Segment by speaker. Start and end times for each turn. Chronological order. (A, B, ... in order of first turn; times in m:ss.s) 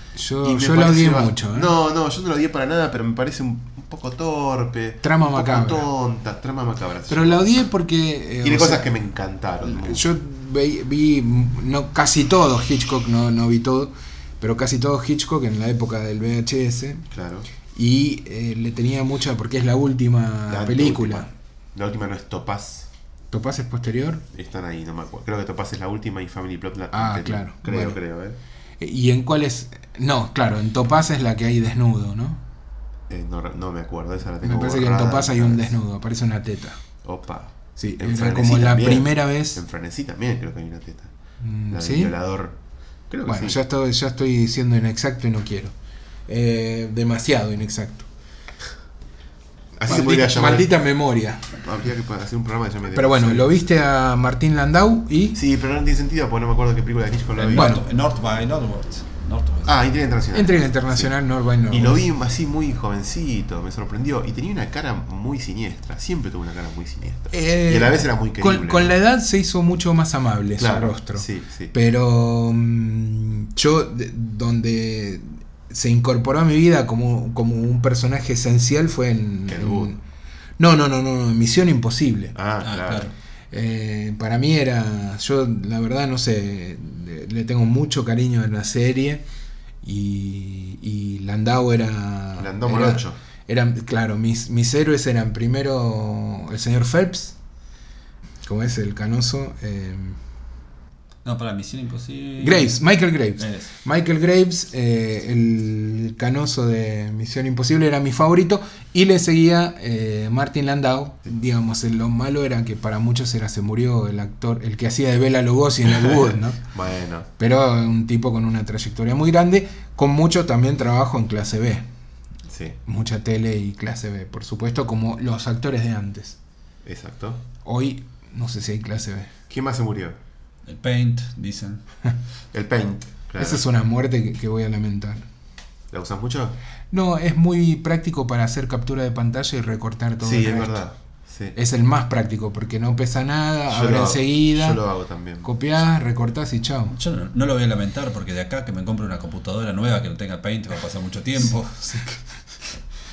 0:00.2-0:01.7 A
0:00.4-0:07.3 B
0:05.0-0:05.8 A
0:07.1-0:08.9 A
0:08.4-0:10.0 B
0:09.6-0:17.1 A
0:17.1-0:17.5 B
0:17.7-0:21.3 A
0:20.5-0:22.9 B
0:23.3-0:24.2 A
0:24.3-0:28.4 B
0:26.9-0:28.0 A
0:28.8-0:32.4 A
0:33.1-0:35.7 B
0:34.4-0:36.8 A
0:37.0-0:41.1 B
0:37.8-0:39.6 A
0:41.4-0:42.1 A
0:41.7-0:42.6 B
0:43.1-0:43.6 B
0:43.2-0:45.7 A
0:46.3-0:48.1 A
0:49.8-0:50.7 B
0:49.8-0:51.6 A
0:51.6-0:53.6 B
0:52.9-0:55.4 A
0:55.3-0:57.8 B
0:57.4-0:59.8 C
0:57.5-0:57.8 A
0:59.6-1:01.1 B
1:00.3-1:02.0 A
1:01.7-1:08.9 B
1:07.3-1:20.0 A
1:10.6-1:11.7 B
1:19.5-1:19.9 B
1:20.6-1:22.3 A
1:22.3-1:23.1 B
1:22.6-1:23.1 C
1:23.5-1:29.2 A
1:29.8-1:37.4 A
1:32.4-1:33.2 B
1:38.4-1:40.2 A
1:41.2-1:42.7 C
1:42.4-1:56.6 A
1:43.4-1:43.7 C
1:56.7-1:57.3 B
1:57.4-2:01.8 A
2:02.5-2:02.8 B
2:02.8-2:06.4 A
2:06.8-2:07.4 B
2:07.6-2:09.3 A
2:09.5-2:10.2 B
2:10.7-2:11.8 C
2:12.5-2:13.6 B
2:13.4-2:15.2 A
2:15.9-2:16.6 B
2:16.9-2:20.8 A
2:20.2-2:21.6 B
2:21.5-2:24.8 A
2:23.7-2:25.5 B
2:25.4-2:26.9 A
2:26.9-2:32.1 C